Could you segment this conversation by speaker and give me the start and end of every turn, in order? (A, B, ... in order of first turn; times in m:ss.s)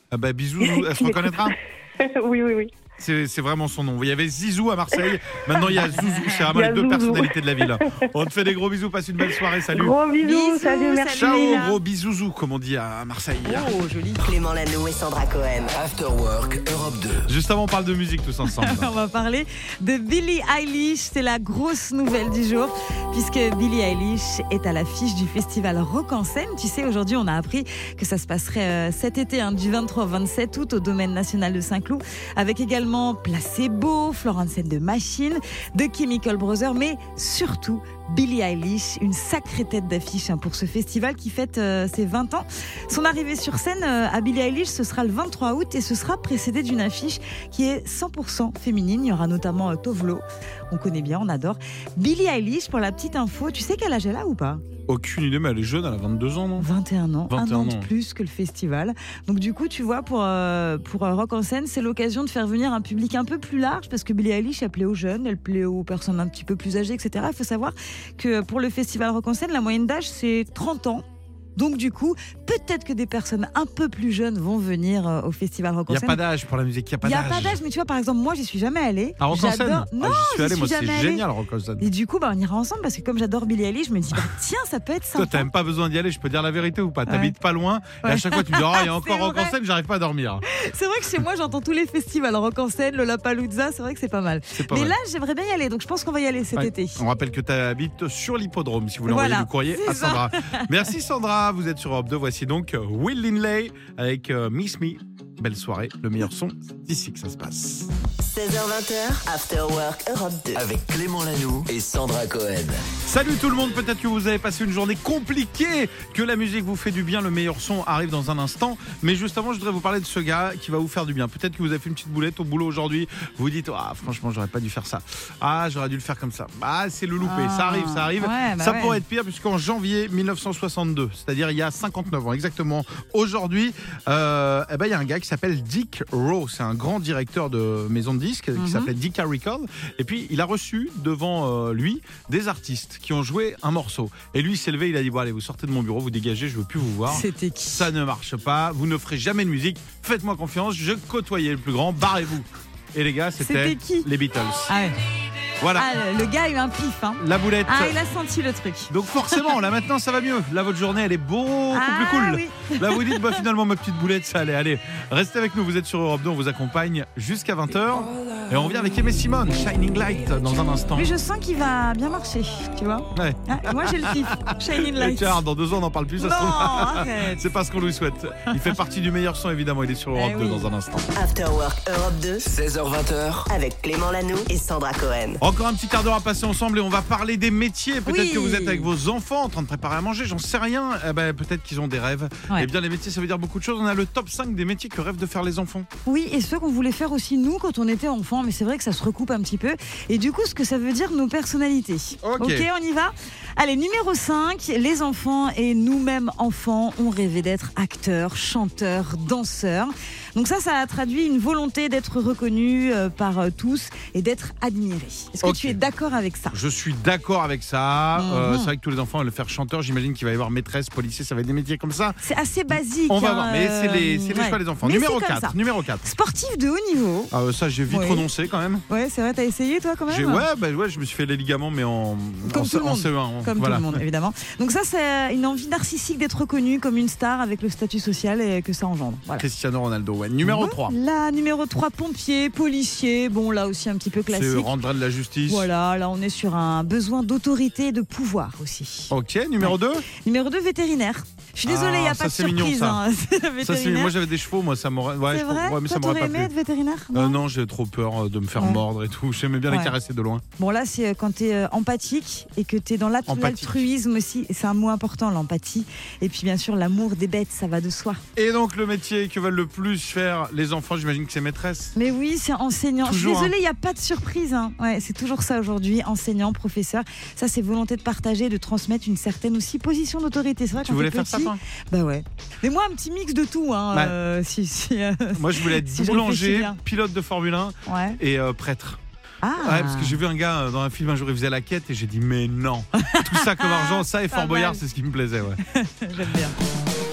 0:00.1-0:01.5 A
0:00.6-0:02.7 B
0:03.0-0:10.0 A
0:05.9-0:06.4 C
0:06.5-0:07.8 B
0:09.7-0:11.5 B
0:10.2-0:11.8 C
0:11.1-0:13.7 A
0:13.4-0:14.3 C
0:14.2-0:15.7 D
0:15.7-0:17.3 E
0:17.3-0:18.9 A
0:18.4-0:54.6 C
0:54.9-0:56.7 A
0:56.6-1:11.0 C
0:57.3-0:57.9 A
1:11.6-1:16.2 C
1:15.9-1:17.6 A
1:17.0-1:21.3 C
1:19.2-1:21.8 A
1:21.8-1:25.5 C
1:25.1-1:30.4 A
1:27.1-1:27.3 C
1:28.0-1:29.6 C
1:30.5-1:37.0 C
1:34.5-1:35.0 A
1:36.6-1:47.9 A
1:39.0-1:40.7 C
1:48.2-1:50.6 D
1:50.5-1:52.8 E
1:53.0-2:34.7 A
2:07.2-2:09.0 C
2:18.6-2:18.9 C
2:27.1-2:27.9 C
2:33.4-2:34.1 C
2:34.7-2:35.0 C
2:35.6-2:35.9 A
2:35.7-2:39.4 C
2:37.2-2:38.0 A
2:38.9-2:51.1 A
2:41.7-2:43.4 C
2:50.9-2:55.4 C
2:53.1-3:01.1 A
2:56.2-2:57.5 C
3:00.1-3:00.7 C
3:01.2-3:02.4 D
3:02.4-3:03.5 E
3:03.5-3:05.4 D
3:05.4-3:15.9 A
3:08.0-3:08.9 C
3:16.0-3:36.6 C
3:22.2-3:22.7 A
3:35.4-3:35.8 A
3:36.5-3:42.2 A
3:38.2-3:38.7 C
3:42.2-3:47.3 C
3:42.7-3:46.1 A
3:47.3-3:48.8 A
3:47.9-3:48.2 C
3:48.9-3:50.4 C
3:50.1-3:54.0 A
3:52.5-3:59.4 C
3:59.4-4:00.9 A
4:00.4-4:04.7 C
4:04.3-4:05.7 A
4:05.4-4:14.2 C
4:09.1-4:10.0 A
4:11.6-4:13.0 A
4:13.6-4:16.5 A
4:15.3-4:17.4 C
4:17.1-4:20.4 A
4:18.6-4:18.8 C
4:19.7-4:19.9 C
4:20.6-4:28.2 C
4:23.3-4:23.9 A
4:28.3-4:31.9 A
4:31.9-4:46.8 C
4:33.0-4:33.5 A
4:40.8-4:41.6 A
4:45.3-4:49.0 A
4:47.9-4:48.2 C
4:49.4-4:50.2 C
4:49.6-4:55.6 A
4:53.0-4:54.8 C
4:55.7-4:56.6 C